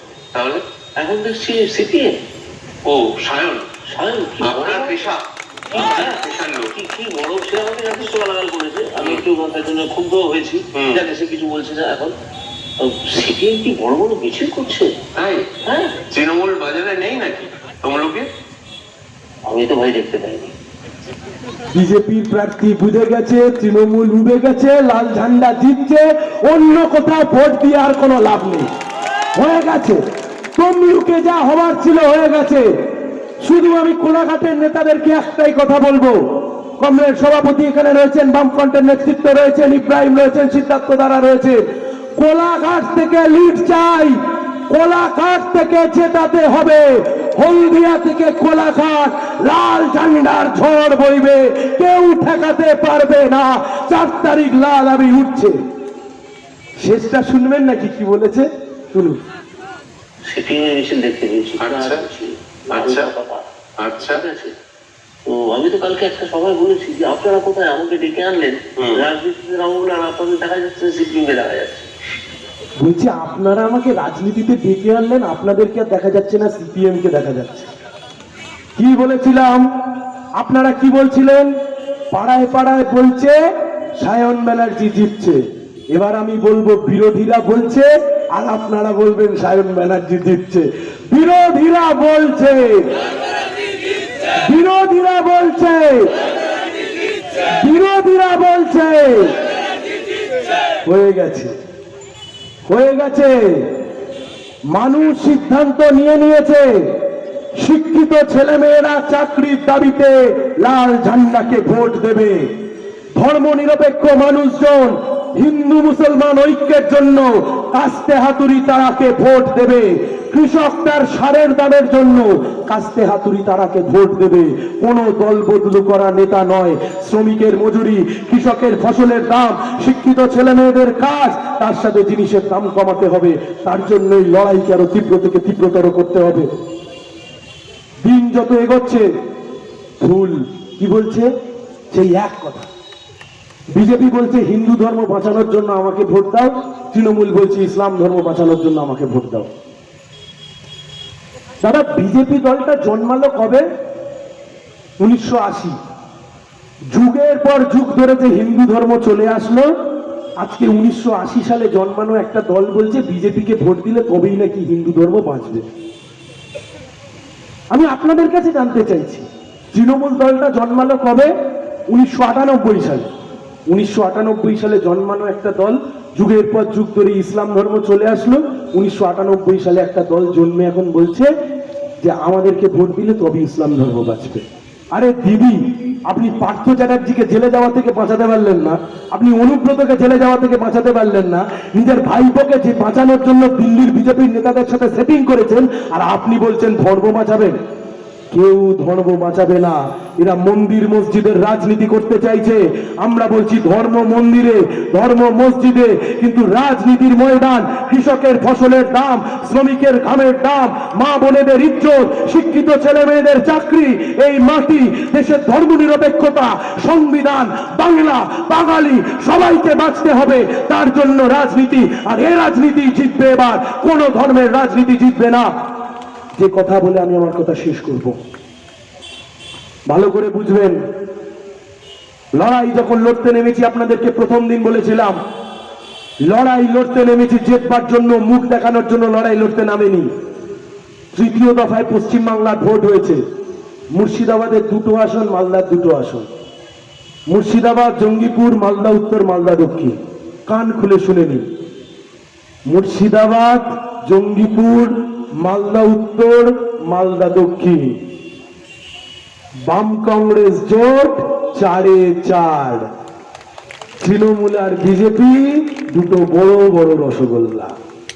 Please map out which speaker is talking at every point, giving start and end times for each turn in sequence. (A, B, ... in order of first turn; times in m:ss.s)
0:00.3-0:00.6 A
0:01.0-0:02.1 B
0:02.8-0:03.6 A
0:03.9-0:05.0 B
0:04.4-0:05.2 A
0:05.7-0:12.1 B
0:05.8-0:06.7 A
0:09.0-0:09.2 A
0:10.8-0:11.0 A
0:12.8-0:14.9 B
0:15.2-0:15.5 A
0:15.6-0:16.0 B
0:16.1-0:18.3 A
0:19.5-0:20.5 B
0:21.7-0:28.7 C
0:29.4-0:30.0 C
0:30.6-0:32.7 C
0:33.4-0:36.2 C
0:36.8-0:41.6 C
0:42.2-0:44.2 C
0:44.7-0:55.6 C
0:56.8-0:59.2 C
1:00.3-1:03.5 B
1:01.6-1:02.0 A
1:02.7-1:03.1 A
1:03.8-1:04.2 A
1:04.0-1:04.5 B
1:05.3-1:11.9 B
1:12.8-1:17.7 C
1:18.8-1:19.6 C
1:20.4-1:21.5 C
1:22.1-1:23.4 C
1:24.0-1:25.4 C
1:25.9-1:32.9 C
1:34.5-1:36.2 C
1:37.6-1:39.4 C
1:40.9-1:41.5 C
1:42.7-1:43.4 C
1:44.7-1:46.7 C
1:47.6-1:52.4 C
1:53.2-2:16.5 C
2:18.0-2:19.1 C
2:20.0-2:21.3 C
2:21.9-2:22.7 C
2:23.8-2:29.5 C
2:31.6-2:33.6 C
2:35.0-2:35.8 C
2:36.9-2:39.7 C
2:40.4-2:45.6 C
2:47.7-2:51.3 C
2:51.9-2:53.1 C
2:53.7-3:01.3 C
3:02.0-3:04.4 C
3:04.9-3:17.6 C
3:18.3-3:45.5 C
3:46.4-3:48.2 C
3:49.9-3:50.8 C
3:52.4-3:55.2 C
3:56.3-4:00.1 C
4:01.1-4:03.2 C
4:04.0-4:06.3 C
4:07.3-4:10.0 C
4:10.5-4:11.4 C
4:12.7-4:18.0 C
4:19.7-4:22.9 C
4:24.0-4:27.7 C